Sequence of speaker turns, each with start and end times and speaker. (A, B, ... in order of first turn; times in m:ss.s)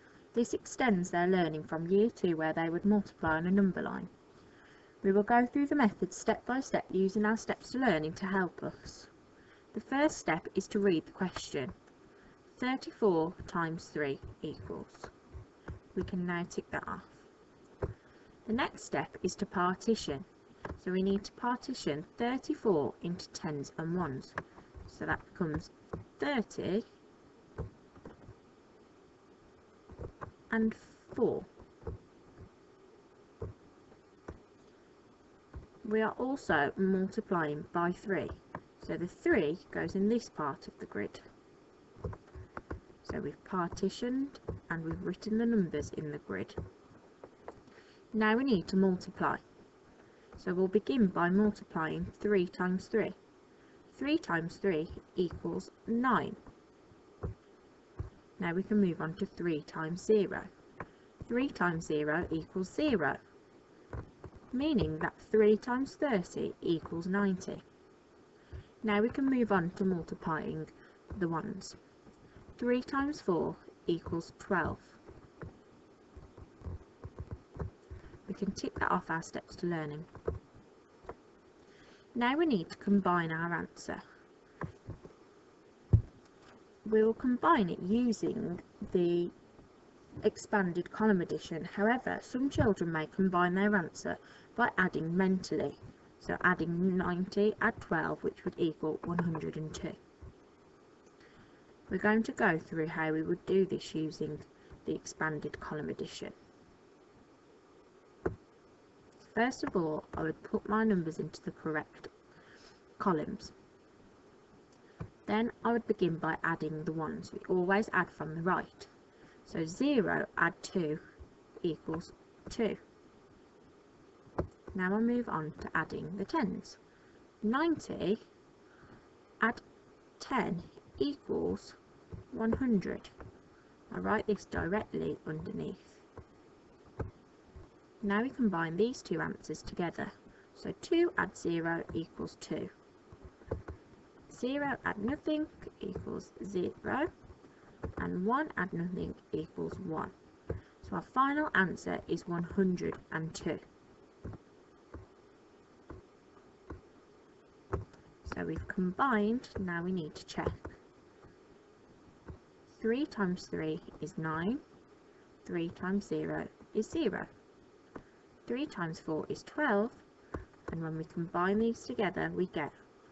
0:00.3-0:04.1 A
0:05.0-0:09.1 A
0:09.7-0:11.7 A
0:12.6-0:15.1 A
0:15.9-0:17.2 A
0:18.5-0:20.3 A
0:20.8-0:24.4 A
0:24.9-0:26.9 A
0:30.5-0:31.5 A
0:35.8-0:41.2 A
0:43.0-0:46.6 A
0:48.1-0:49.4 A
0:50.4-0:53.2 A
0:53.9-0:56.4 A
0:58.4-1:00.5 A
1:01.2-1:03.2 A
1:04.5-1:07.6 A
1:08.8-1:11.8 A
1:12.6-1:15.0 A
1:18.3-1:20.1 A
1:22.1-1:24.0 A
1:26.9-1:29.3 A
1:30.2-1:40.0 A
1:41.9-1:46.4 A
1:49.3-1:52.1 A
1:53.0-1:53.5 A
1:55.3-1:58.9 A
1:59.5-2:01.0 A
2:01.6-2:02.8 A
2:04.7-2:06.8 A
2:07.4-2:08.2 A
2:10.2-2:11.8 A
2:12.3-2:13.1 A
2:13.9-2:16.0 A
2:18.0-2:22.7 A
2:24.3-2:27.1 A
2:28.0-2:30.2 A
2:30.8-2:33.6 A
2:38.2-2:40.7 A
2:42.8-2:44.6 A
2:45.4-2:47.3 A
2:48.5-2:50.0 A
2:50.7-2:52.8 A